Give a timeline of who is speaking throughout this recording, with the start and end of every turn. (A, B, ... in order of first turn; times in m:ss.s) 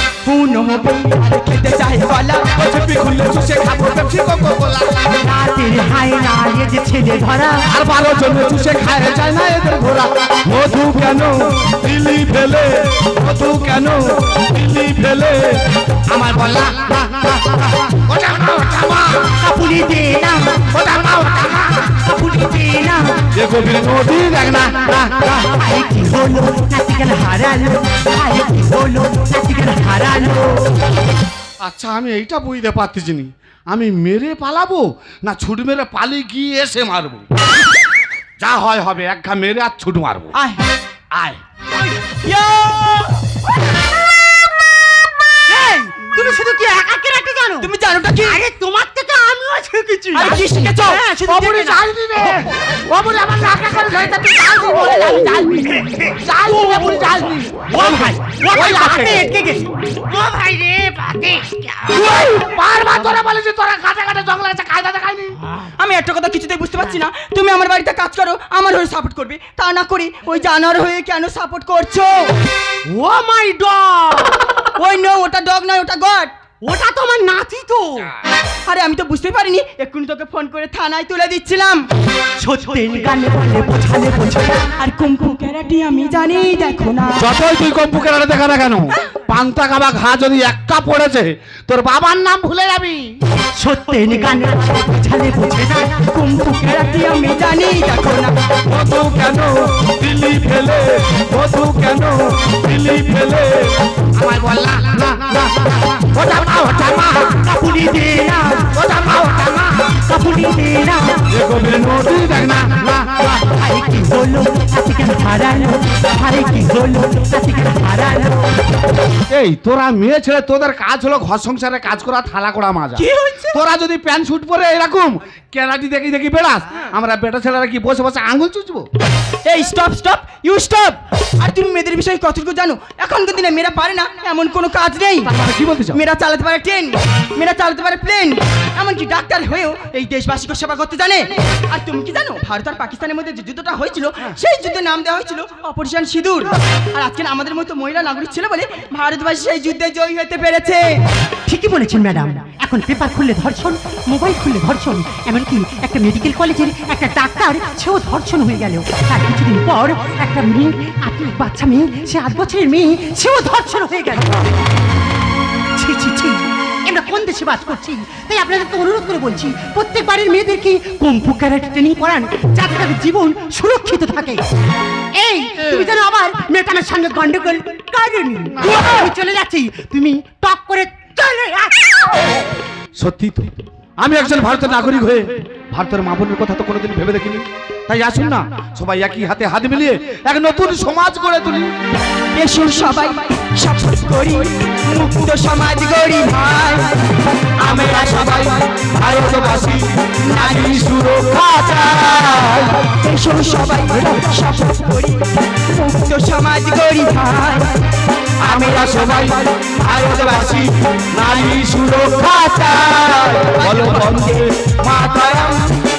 0:00.2-0:02.5 A
0:02.6-0:05.1 B
0:05.2-0:07.7 C
0:07.7-0:19.3 B
0:19.4-0:20.7 C
0:20.7-0:22.0 B
0:22.0-0:23.1 C
0:23.3-0:25.3 B
0:24.9-0:30.8 C
0:31.6-0:37.3 B
0:38.4-0:40.3 B
0:40.3-0:40.6 A
0:41.1-0:41.4 B
0:42.1-0:43.2 A
0:45.5-0:52.4 C
0:47.6-0:48.4 A
0:50.1-0:51.0 A
0:51.2-0:59.3 B
0:57.7-1:01.9 C
1:01.9-1:05.4 B
1:05.7-1:12.4 A
1:12.9-1:14.4 C
1:14.8-1:16.4 A
1:16.6-1:18.1 C
1:18.7-1:21.9 A
1:22.4-1:24.7 C
1:24.7-1:27.3 A
1:27.2-1:33.2 B
1:33.6-1:36.0 C
1:36.0-1:38.4 A
1:38.7-1:47.4 B
1:47.4-1:48.7 C
1:48.7-1:50.0 B
1:50.1-1:51.2 C
1:51.3-1:53.4 B
1:53.4-1:58.5 C
1:59.3-2:08.9 B
2:03.0-2:03.6 A
2:09.5-2:15.3 A
2:15.2-2:16.0 B
2:15.9-2:31.0 A
2:31.5-2:44.5 C
2:45.8-2:54.4 C
2:55.2-3:02.0 C
2:58.6-2:58.9 B
3:03.0-3:11.7 B
3:12.3-3:20.9 A
3:17.6-3:22.9 B
3:22.7-3:27.8 A
3:23.9-3:24.4 B
3:28.4-3:30.7 A
3:28.4-3:35.7 B
3:33.4-3:34.5 A